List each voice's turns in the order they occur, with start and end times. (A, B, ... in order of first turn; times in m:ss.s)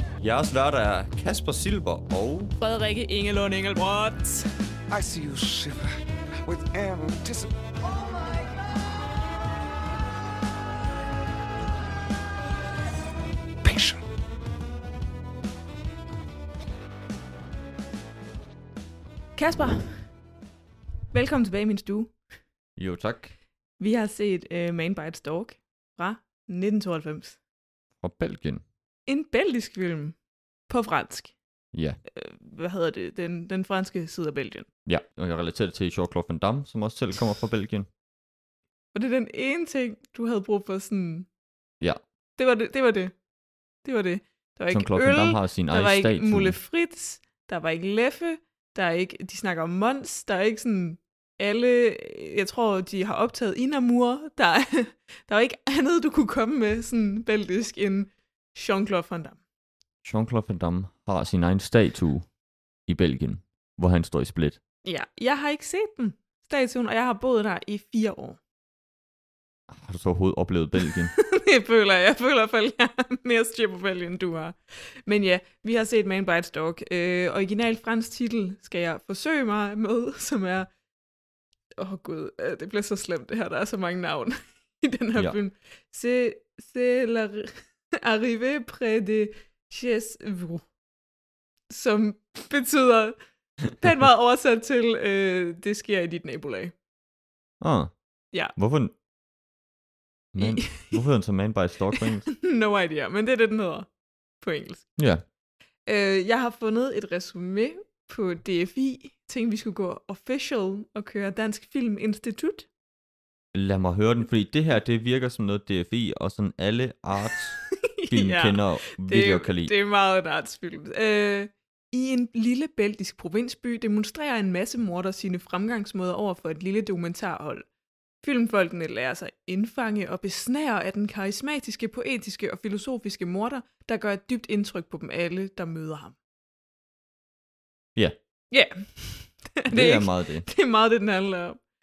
0:00.2-0:02.5 A
0:02.6-0:04.5 B
0:04.9-0:05.9 C
0:06.4-0:07.5 C
0:13.6-0:14.0 C
0:19.4-0:20.0 B
0:21.1-0:22.1 B
0:22.8-0:23.3 A
0:23.8-0:27.4 B
0:28.0-0:28.6 A
0:29.1-0:30.2 B
0:30.7-0:31.3 B
0:31.7-0:32.0 A
0:32.1-0:34.7 B
0:34.8-0:37.9 A
0:38.9-0:41.3 B
0:42.4-0:43.1 B
0:43.8-0:59.4 B
0:44.7-0:46.6 A
1:00.0-1:02.3 A
1:02.9-1:04.6 A
1:04.8-1:08.4 B
1:09.7-1:11.1 A
1:11.1-1:20.7 B
1:21.8-1:30.6 B
1:31.7-1:33.2 B
1:33.8-1:36.7 B
1:37.6-1:37.9 A
1:38.5-1:38.9 A
1:40.3-1:42.2 A
1:40.4-1:41.0 B
1:41.9-1:43.9 B
1:44.4-1:44.9 B
1:45.0-1:45.2 A
1:45.8-1:52.7 B
1:53.5-1:59.7 A
1:57.9-2:07.7 B
2:08.2-2:16.2 B
2:18.5-2:21.6 B
2:19.7-2:20.4 A